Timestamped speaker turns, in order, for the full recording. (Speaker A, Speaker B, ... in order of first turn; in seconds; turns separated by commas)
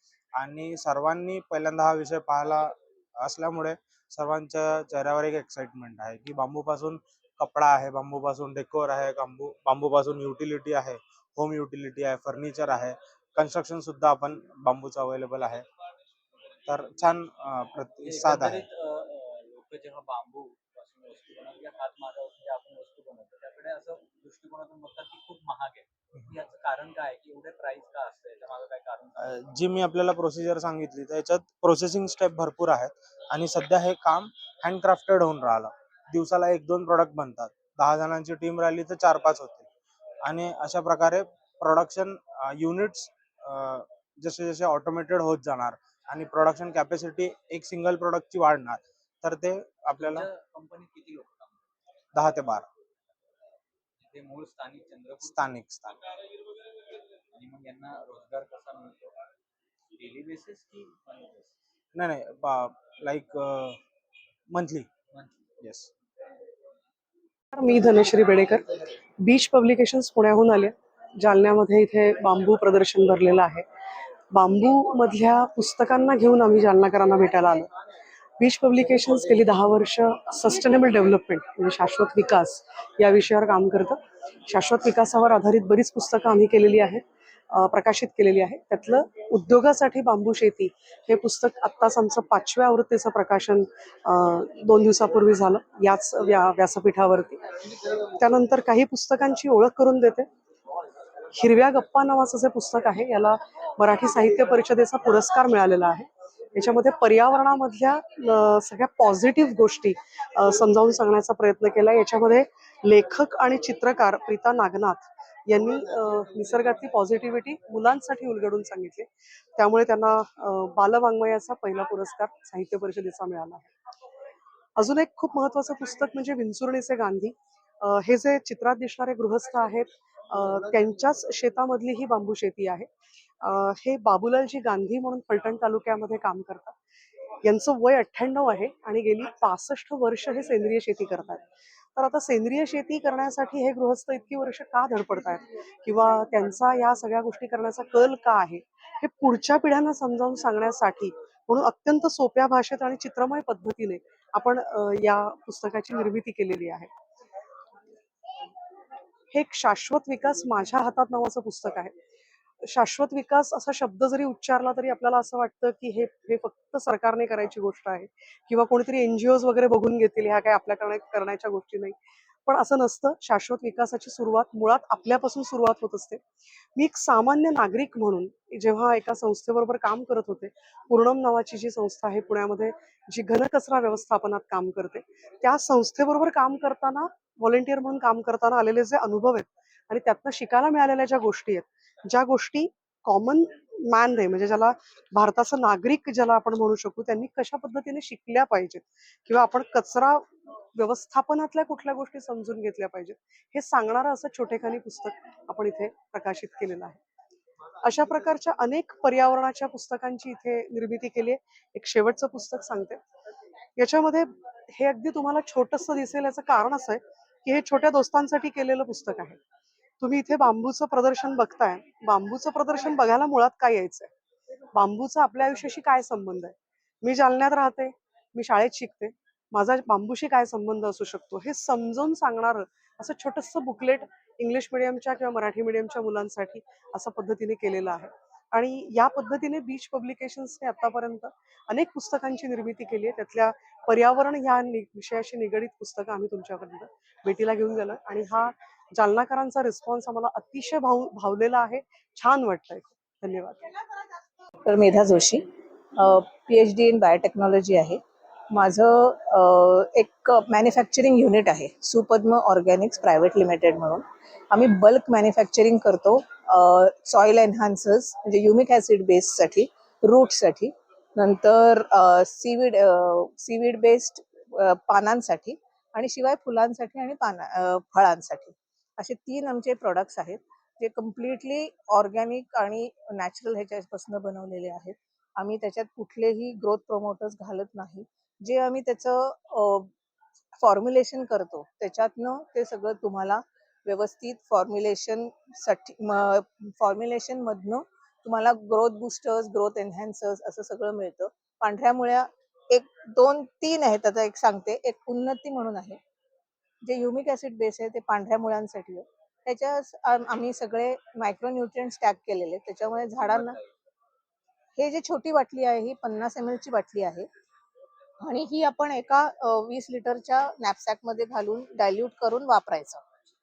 Speaker A: 0.3-15.7, Speaker A: 16.7-18.6, Speaker B: 18.0-29.4, Speaker A: 29.2-39.7, Speaker A: 40.2-50.3, Speaker B: 49.9-51.6, Speaker A: 52.1-52.6, Speaker B: 54.0-55.5, Speaker A: 55.2-56.0, Speaker B: 57.3-59.1, Speaker B: 60.0-61.5, Speaker A: 61.9-63.8, Speaker A: 64.5-64.9, Speaker A: 65.6-65.9, Speaker C: 67.5-68.6, Speaker C: 69.2-73.7, Speaker C: 74.3-77.7, Speaker C: 78.4-97.4, Speaker C: 98.2-100.3, Speaker C: 101.3-123.7, Speaker C: 124.8-132.9, Speaker C: 133.4-136.8, Speaker C: 137.4-141.4, Speaker C: 141.9-156.9, Speaker C: 159.3-161.9, Speaker C: 162.6-176.2, Speaker C: 176.8-207.0, Speaker C: 207.8-213.0, Speaker C: 213.8-219.4, Speaker C: 220.0-224.1, Speaker C: 224.7-253.7, Speaker D: 254.6-255.4, Speaker D: 256.0-258.0, Speaker D: 258.5-289.9, Speaker D: 290.6-306.0, Speaker D: 306.8-313.6, Speaker B: 313.3-313.6, Speaker D: 314.8-317.3, Speaker D: 318.2-323.0